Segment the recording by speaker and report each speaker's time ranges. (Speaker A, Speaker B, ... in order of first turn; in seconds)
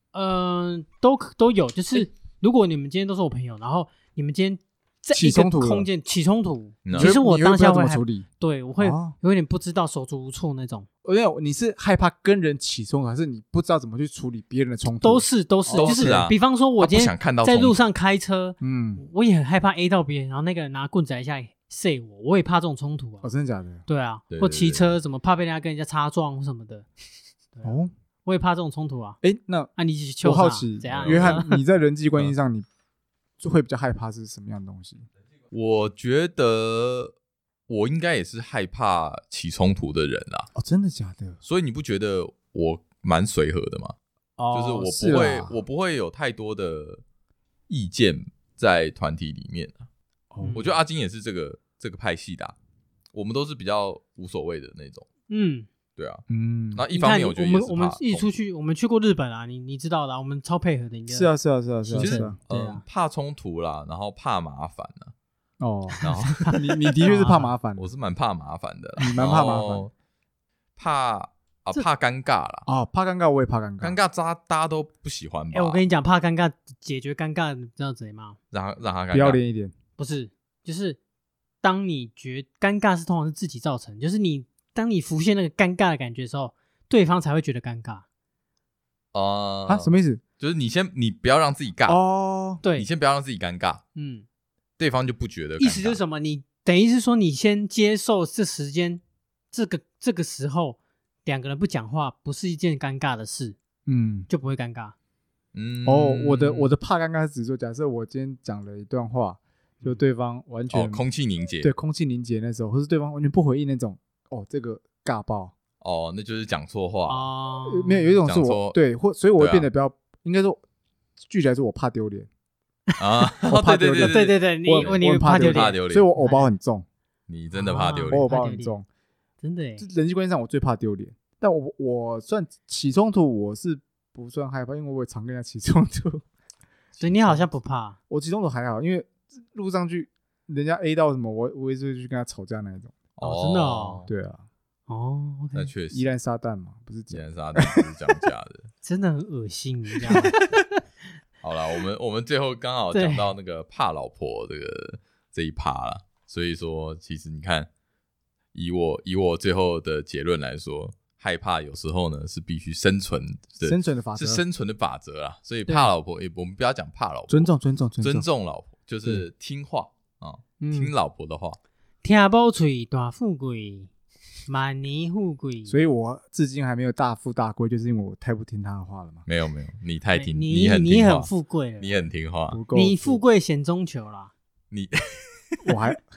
Speaker A: 0.1-10.9, 15.0-23.3, 23.9-26.9, 27.6-29.2, 29.8-31.6, 50.4-50.7, 55.3-55.7, 56.9-61.3, 61.9-62.8, 65.9-67.5, 75.5-78.4, 80.0-81.0, 81.6-88.0, 92.6-92.9, 94.0-94.3, 95.6-99.0, 99.5-103.6, 104.3-105.0, 117.1-118.2, 124.0-126.5, 127.5-128.8, 129.4-129.9, 137.0-138.0, 143.2-144.1, 144.9-145.7, 148.8-150.5, 152.9-153.3, 172.0-173.9, 174.5-175.8, 180.1-181.9, 182.7-184.3
Speaker B: 5.1-5.9, 6.9-8.3, 8.8-9.2, 11.0-16.2, 18.6-19.0, 23.2-23.8, 27.6-27.9, 29.2-32.7, 33.4-35.1, 40.5-41.4, 44.4-45.6, 50.3-50.7, 56.3-56.9, 61.1-62.4, 65.6-67.9, 69.0-69.9, 72.7-74.0, 79.1-79.7, 89.7-90.2, 91.9-92.6, 103.9-104.3, 105.8-111.0, 111.6-115.5, 117.7-120.6, 121.2-122.3, 123.4-126.8, 128.1-128.9, 129.8-136.2, 138.1-143.0, 144.1-144.4, 145.9-147.9, 150.1-150.3, 163.6-164.4, 167.3-168.3, 170.6-170.9, 175.7-179.2, 182.5-183.2, 185.6-186.0
Speaker C: 6.8-7.2, 15.7-17.8, 24.3-24.9, 30.9-31.4, 35.5-37.1, 37.7-40.5, 41.5-44.0, 44.5-47.0, 47.7-49.9, 50.5-52.5, 53.1-55.1, 56.0-58.3, 62.0-65.1, 66.0-66.6, 67.8-69.9, 70.8-72.7, 73.8-75.8, 78.5-79.4, 89.1-92.0, 92.7-93.8, 94.8-96.0, 105.5-106.7, 110.7-111.7, 115.8-117.3, 118.2-118.8, 119.4-119.7, 123.0-126.1, 127.3-128.3, 136.9-137.4, 143.2-144.1, 145.5-146.0, 147.1-148.7, 151.4-157.7, 158.5-171.6, 179.3-182.6, 184.7-185.7